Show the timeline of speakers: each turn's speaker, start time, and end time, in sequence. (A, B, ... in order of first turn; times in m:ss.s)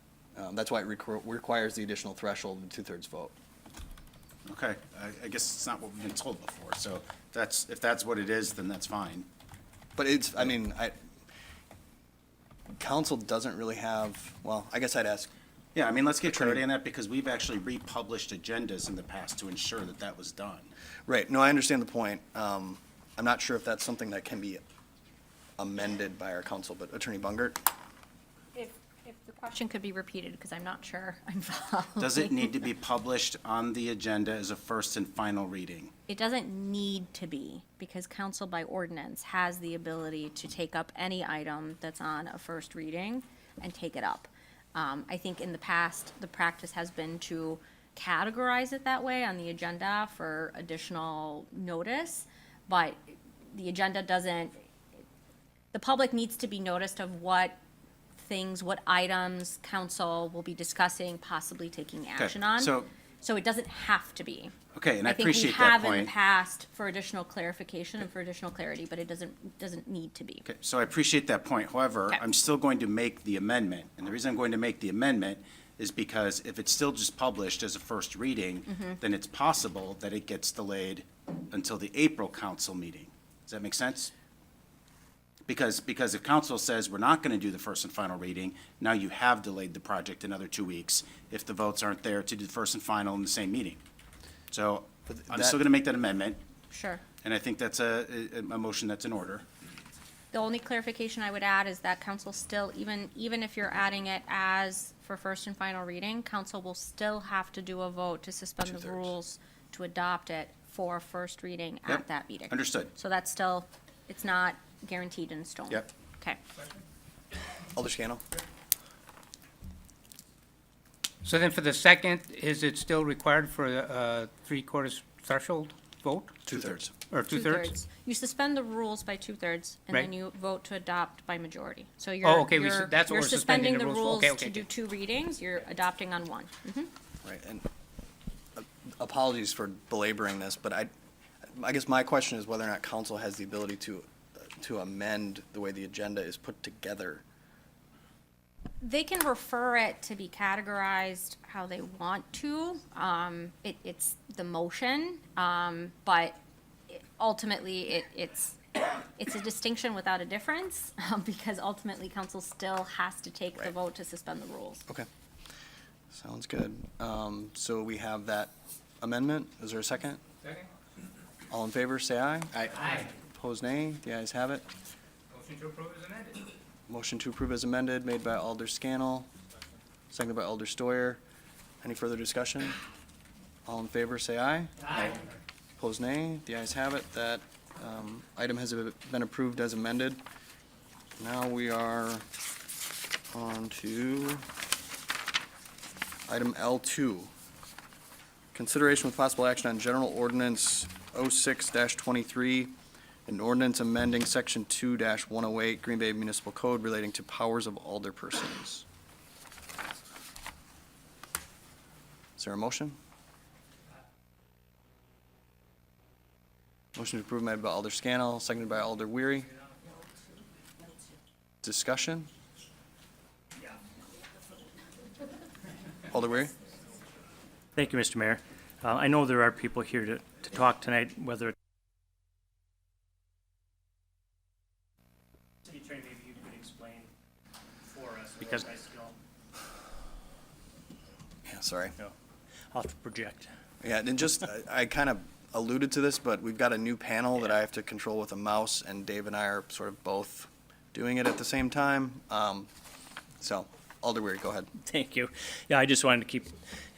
0:00.4-0:03.4 A
0:04.5-0:09.3 B
0:10.0-0:11.0 A
0:12.8-0:15.3 A
0:15.8-0:20.7 B
0:16.3-0:16.6 A
0:21.1-0:24.6 A
0:25.6-0:27.6 A
0:28.6-0:32.5 C
0:32.0-0:35.9 B
0:36.1-0:54.5 C
0:55.7-0:57.6 C
0:58.2-1:10.5 C
1:02.2-1:02.9 B
1:04.7-1:06.1 B
1:10.5-1:24.1 B
1:18.7-1:19.0 C
1:25.5-1:33.8 B
1:34.5-1:36.4 B
1:35.1-1:35.6 A
1:36.7-1:37.0 C
1:37.2-1:39.4 B
1:40.3-1:56.4 C
1:48.6-1:49.1 A
1:51.9-1:52.9 B
1:57.7-1:58.2 A
2:01.2-2:06.4 D
2:06.5-2:06.9 A
2:06.5-2:06.8 B
2:07.1-2:07.7 D
2:07.3-2:16.9 C
2:12.2-2:14.7 D
2:17.2-2:17.7 A
2:18.6-2:20.9 A
2:21.5-2:27.2 A
2:28.8-2:36.4 C
2:36.9-2:44.8 C
2:46.1-2:50.2 A
2:51.5-2:54.7 A
2:52.6-2:52.8 B
2:55.3-2:56.4 D
2:56.9-2:59.3 A
3:00.1-3:01.2 A
3:01.8-3:02.8 A
3:03.7-3:04.9 A
3:05.8-3:10.2 A
3:11.2-3:12.3 A
3:13.3-3:14.4 A
3:16.3-3:17.3 A
3:18.5-3:22.7 A
3:23.3-3:28.9 A
3:32.4-3:33.0 A
3:37.0-3:39.5 A
3:41.6-3:42.3 A
3:46.1-3:46.5 A
3:47.8-3:51.6 E
3:55.7-3:57.1 E
3:57.9-3:59.2 E
4:01.5-4:02.0 A
4:02.7-4:03.5 E
4:03.8-4:12.7 A
4:13.4-4:14.7 A
4:14.8-4:16.6 E